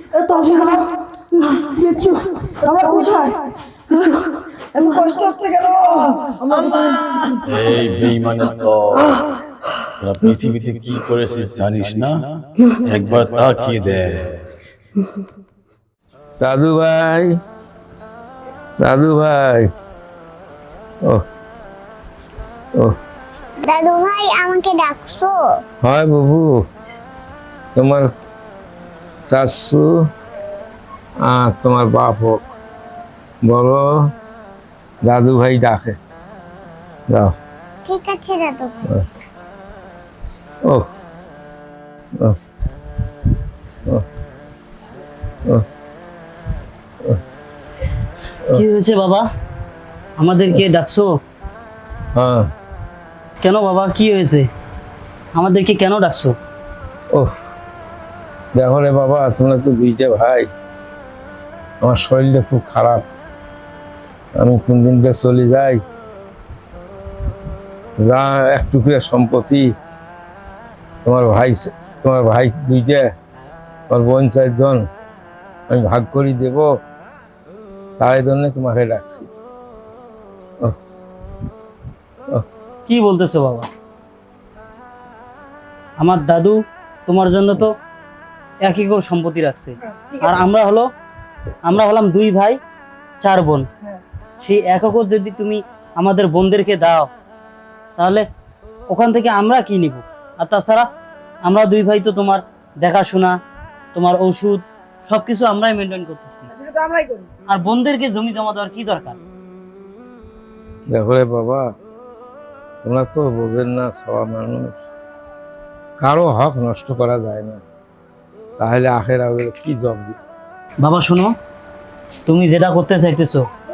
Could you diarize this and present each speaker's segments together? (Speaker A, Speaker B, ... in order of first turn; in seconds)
Speaker A: 0.3-0.8, 1.6-4.2, 4.7-7.3, 89.8-90.4, 106.5-107.3
Speaker B: 7.5-9.2, 10.0-12.2, 12.8-14.4
Speaker C: 16.4-17.4, 18.8-19.7, 25.8-26.6, 27.8-28.1, 29.3-30.1, 31.2-32.5, 33.5-34.1, 35.0-36.0, 52.1-52.5, 58.5-60.5, 61.8-63.0, 64.4-65.8, 68.0-69.7, 71.0-73.1, 73.9-74.9, 75.7-76.7, 78.0-79.3, 110.9-111.7, 112.8-114.8, 116.0-117.6, 118.6-120.2
Speaker D: 23.6-25.5, 37.9-38.9
Speaker E: 48.5-49.3, 50.2-51.1, 53.4-54.5, 55.3-56.4, 82.9-83.7, 86.0-87.7, 88.6-90.9, 91.7-92.6, 93.2-93.7, 94.4-97.1, 98.0-98.2, 98.9-100.9, 101.5-103.4, 103.9-106.5, 107.5-109.2, 120.8-121.3, 122.3-123.5